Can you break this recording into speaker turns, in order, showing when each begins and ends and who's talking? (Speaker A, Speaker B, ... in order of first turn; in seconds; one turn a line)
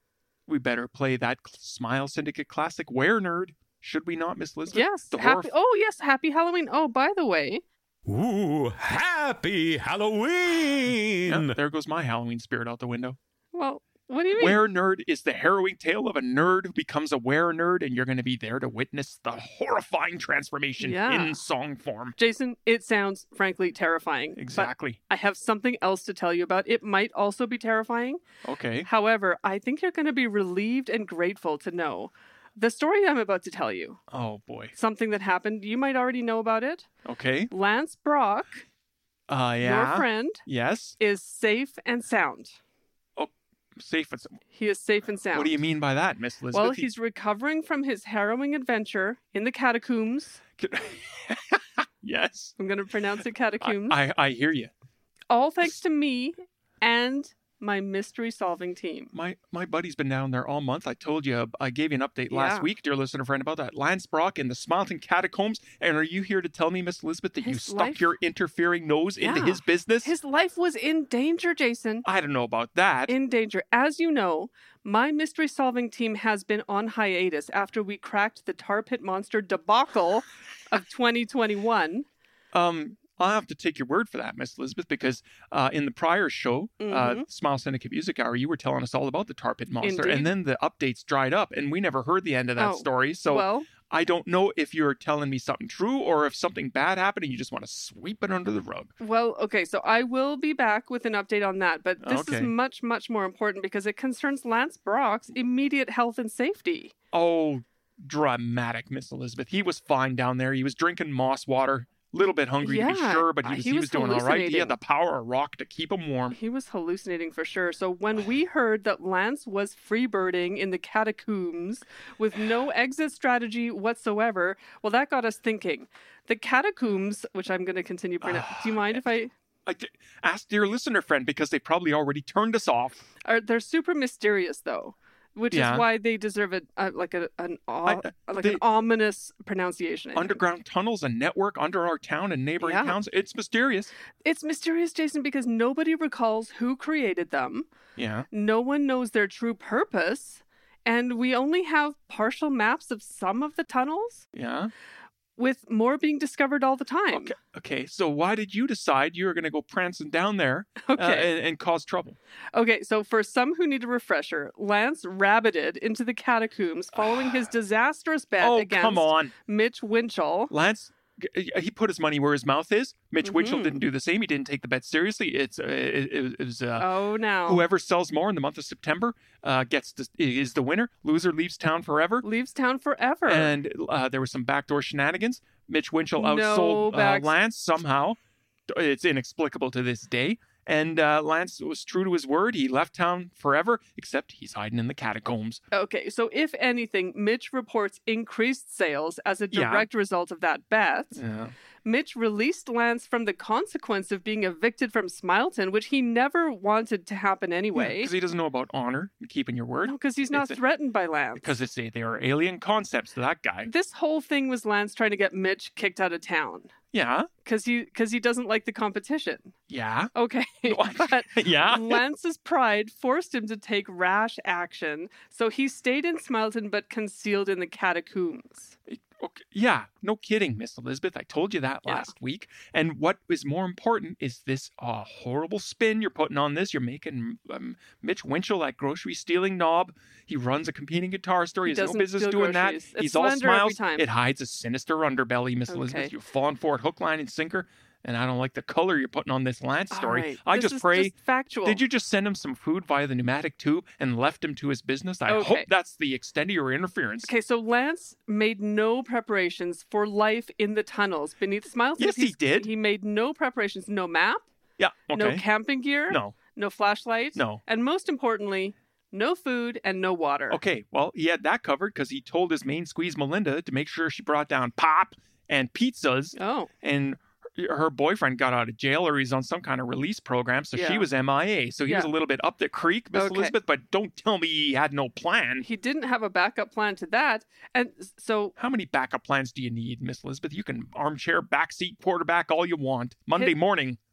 Speaker A: 0.5-5.5
Speaker B: 4.7-7.6
Speaker C: 8.1-11.5
Speaker A: 11.3-13.2
Speaker B: 13.5-14.6
Speaker A: 14.4-22.1
Speaker B: 20.8-21.4
Speaker B: 22.2-28.2
Speaker A: 24.4-25.0
Speaker A: 28.4-28.9
Speaker B: 28.9-34.0
Speaker A: 34.1-34.8
Speaker B: 34.8-36.9
Speaker A: 37.0-37.5
Speaker B: 37.5-38.6
Speaker A: 39.3-41.0
Speaker B: 39.6-40.4
Speaker B: 41.0-42.6
Speaker A: 43.2-44.4
Speaker B: 44.5-45.6
Speaker A: 45.3-46.9
Speaker B: 46.5-50.4
Speaker A: 50.6-52.5
Speaker B: 52.6-54.0
Speaker A: 53.6-54.7
Speaker B: 55.3-59.1
Speaker A: 59.1-70.1
Speaker B: 62.3-62.7
Speaker B: 67.4-68.1
Speaker B: 69.2-72.1
Speaker A: 72.0-73.1
Speaker B: 73.1-82.1
Speaker A: 82.5-98.9
Speaker B: 86.8-87.2
Speaker B: 89.8-90.3
Speaker B: 92.6-93.7
Speaker B: 99.0-106.9
Speaker A: 102.0-102.5
Speaker A: 107.1-116.4
Speaker B: 112.6-114.8
Speaker B: 116.3-129.3
Speaker A: 128.2-129.0
Speaker A: 129.7-133.0
Speaker B: 133.2-140.4
Speaker A: 135.5-135.9
Speaker A: 137.8-138.6
Speaker A: 140.2-143.9
Speaker B: 142.6-143.0
Speaker B: 144.2-147.7
Speaker A: 148.0-148.3
Speaker B: 148.3-154.2
Speaker A: 154.3-154.7
Speaker B: 155.4-157.3
Speaker A: 157.1-162.2
Speaker B: 160.8-161.3
Speaker B: 162.5-170.5
Speaker A: 166.9-167.3
Speaker A: 168.4-169.3
Speaker A: 170.5-176.9
Speaker B: 173.2-173.8
Speaker B: 176.8-177.7
Speaker A: 177.5-182.2
Speaker B: 182.2-183.6
Speaker A: 183.3-188.2
Speaker B: 186.2-187.3
Speaker A: 188.7-195.6
Speaker B: 195.7-201.2
Speaker A: 199.5-199.9
Speaker A: 201.2-201.5
Speaker B: 201.8-208.1
Speaker A: 207.8-210.6
Speaker B: 209.9-211.5
Speaker A: 211.4-213.7
Speaker B: 213.7-216.7
Speaker A: 216.9-217.3
Speaker B: 217.4-219.6
Speaker A: 219.7-220.1
Speaker B: 220.2-228.8
Speaker A: 220.7-222.1
Speaker A: 228.9-257.3
Speaker B: 231.9-232.1
Speaker B: 241.6-244.1
Speaker B: 245.7-246.1
Speaker B: 249.9-251.8
Speaker B: 255.3-255.7
Speaker B: 257.2-264.5
Speaker A: 262.0-262.7
Speaker A: 264.8-265.4
Speaker B: 265.1-270.6
Speaker A: 266.1-266.4
Speaker A: 267.4-267.6
Speaker A: 270.5-285.6
Speaker B: 276.4-276.7
Speaker B: 280.7-281.1
Speaker B: 283.1-283.6
Speaker B: 285.6-288.5
Speaker A: 288.6-294.0